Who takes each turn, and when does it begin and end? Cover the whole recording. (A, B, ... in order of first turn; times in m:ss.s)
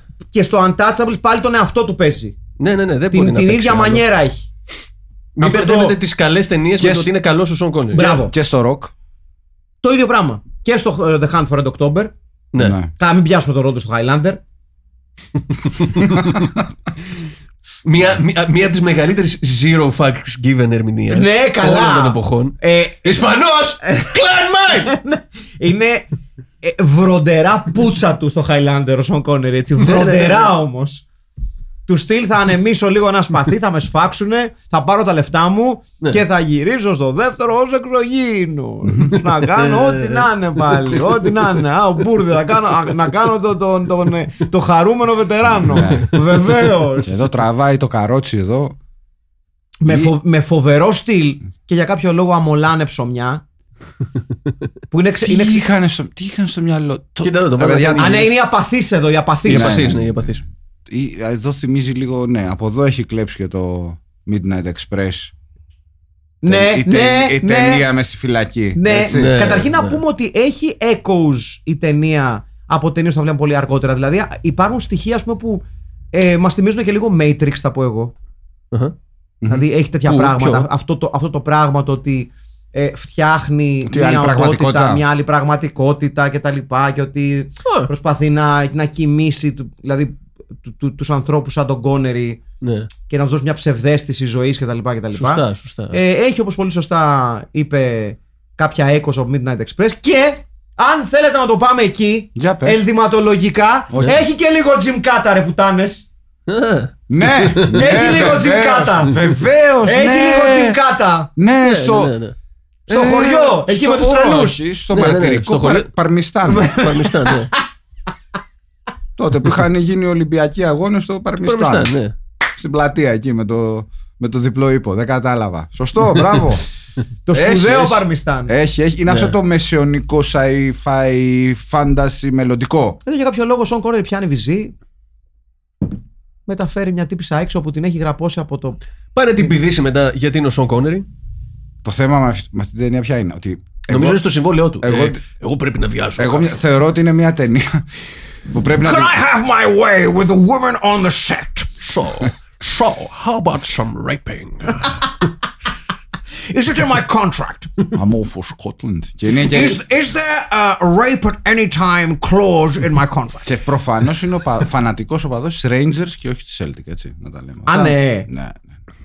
0:00.3-0:02.4 A
0:02.6-0:04.0 B
0:03.1-0:04.4 A
0:05.4-0:08.1 B
0:05.4-0:06.0 A
0:06.8-0:07.1 C
0:07.9-0:08.3 A
0:07.9-0:08.9 C
0:09.8-0:12.1 A
0:12.6-0:12.9 C
0:13.0-0:14.4 A
0:15.7-0:16.3 B
0:17.8-0:24.9 B
0:21.1-0:26.1 A
0:26.6-0:31.0 A
0:29.8-0:30.5 B
0:31.9-0:47.1 A
0:39.6-0:41.5 B
0:45.6-0:46.1 C
0:45.9-0:46.2 B
0:47.0-0:48.8 C
0:49.8-0:53.4 A
0:49.9-0:50.1 C
0:54.9-0:55.6 A
0:55.2-0:58.3 C
0:57.2-0:58.3 B
0:58.0-0:59.8 A
0:59.4-1:00.4 B
0:59.5-1:05.3 C
1:06.4-1:07.8 A
1:06.5-1:09.6 C
1:08.8-1:18.1 A
1:09.1-1:10.0 B
1:19.5-1:32.4 A
1:20.1-1:20.7 B
1:23.9-1:25.0 C
1:32.6-1:32.9 B
1:33.1-1:46.1 A
1:35.1-1:36.0 B
1:42.4-1:42.8 C
1:43.9-1:44.2 C
1:46.5-1:48.2 B
1:47.1-1:50.8 C
1:47.7-1:49.3 A
1:49.8-1:51.3 A
1:51.4-1:52.2 C
1:51.6-1:52.4 B
1:52.9-1:54.6 A
1:52.9-1:56.8 C
1:54.9-1:55.9 B
1:56.5-1:57.5 B
1:56.5-1:57.6 A
1:59.2-2:01.9 C
2:01.4-2:02.2 B
2:02.6-2:06.6 C
2:07.3-2:08.5 A
2:07.3-2:13.0 C
2:09.1-2:09.3 B
2:13.0-2:14.8 A
2:16.5-2:18.8 A
2:19.1-2:21.1 B
2:21.8-2:24.2 C
2:23.9-2:26.5 B
2:24.8-2:25.2 C
2:26.2-2:29.2 C
2:28.8-2:33.6 A
2:31.9-2:35.1 B
2:36.5-2:37.7 A
2:37.9-2:39.8 C
2:39.5-2:43.5 A
2:43.4-2:48.6 C
2:47.7-2:48.3 A